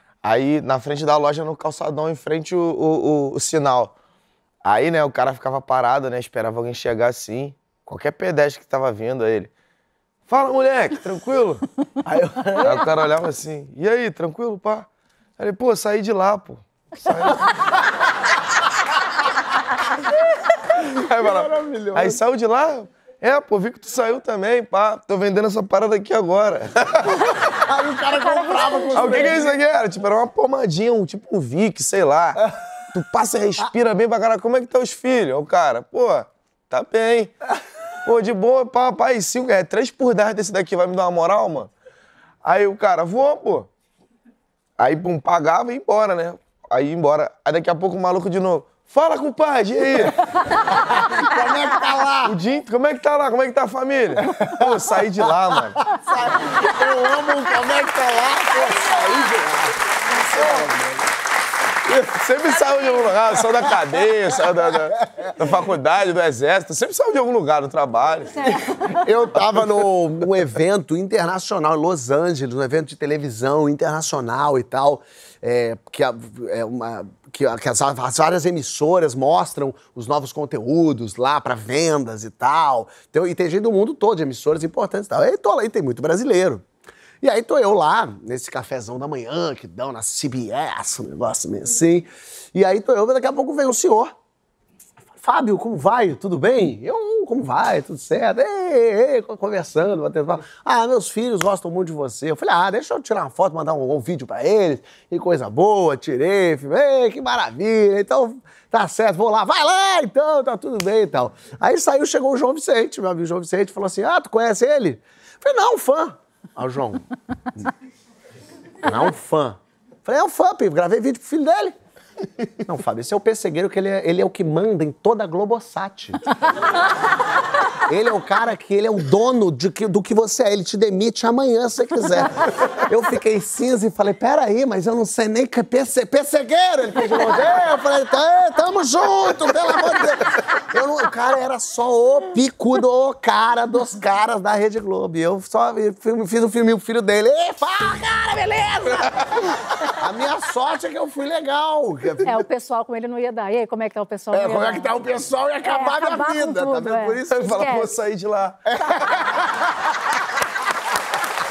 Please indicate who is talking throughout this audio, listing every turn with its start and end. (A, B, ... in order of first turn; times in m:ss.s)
0:00.2-0:03.9 A
0:04.6-0:09.5 A
0:10.3-0:11.6 A
0:12.0-0:12.9 B
0:12.6-0:14.9 A
0:15.4-0:17.6 A
0:20.6-0:27.4 A
0:21.2-0:22.2 B
0:27.3-0:29.6 B
0:28.0-0:29.4 C
0:28.9-0:32.4 A
0:32.9-0:37.4 A
0:38.0-0:41.7 A
0:42.4-0:43.7 A
0:44.8-0:50.3 A
0:50.5-0:52.4 B
0:52.2-0:55.8 A
0:54.2-1:01.0 B
1:00.2-1:00.7 C
1:01.9-1:08.6 A
1:03.4-1:03.7 B
1:08.4-1:08.8 C
1:08.6-1:26.6 B
1:09.5-1:09.8 A
1:27.2-1:34.1 B
1:35.2-1:57.1 B
1:58.8-2:01.8 B
2:02.5-2:06.3 B
2:07.6-2:32.4 B
2:28.9-2:29.5 A
2:32.2-2:35.0 C
2:34.3-2:37.6 B
2:35.6-2:37.9 C
2:37.3-2:39.2 A
2:38.7-2:39.8 B